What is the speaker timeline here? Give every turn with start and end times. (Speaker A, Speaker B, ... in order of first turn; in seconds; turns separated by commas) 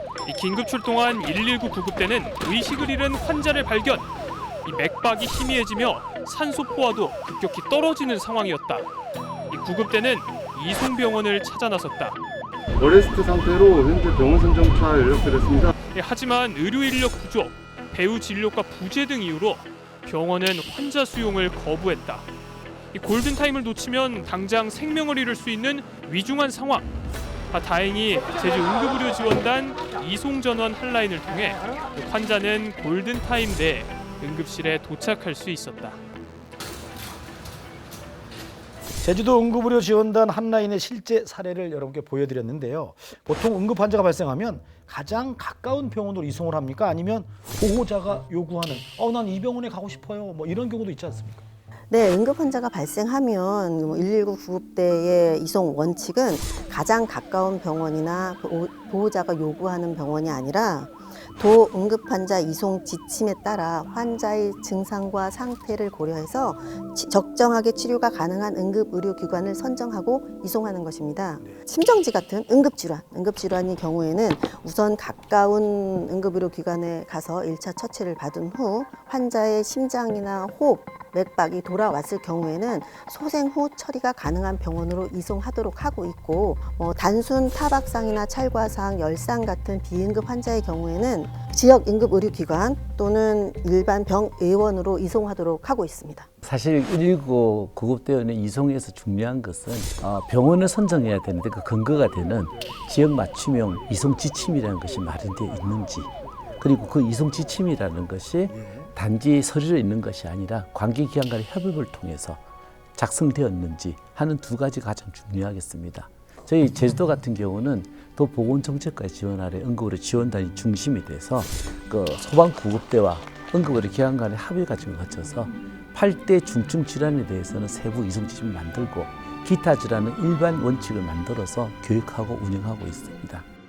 Speaker A: 0.2-4.1, Speaker A: 4.6-8.9, Speaker A: 9.5-12.2, Speaker B: 12.8-15.7, Speaker A: 15.9-22.2, Speaker A: 22.9-26.9, Speaker A: 27.5-36.0, Speaker C: 39.0-51.4, Speaker D: 51.9-96.3, Speaker E: 96.4-112.4, Speaker C: 108.6-108.9, Speaker E: 113.0-133.4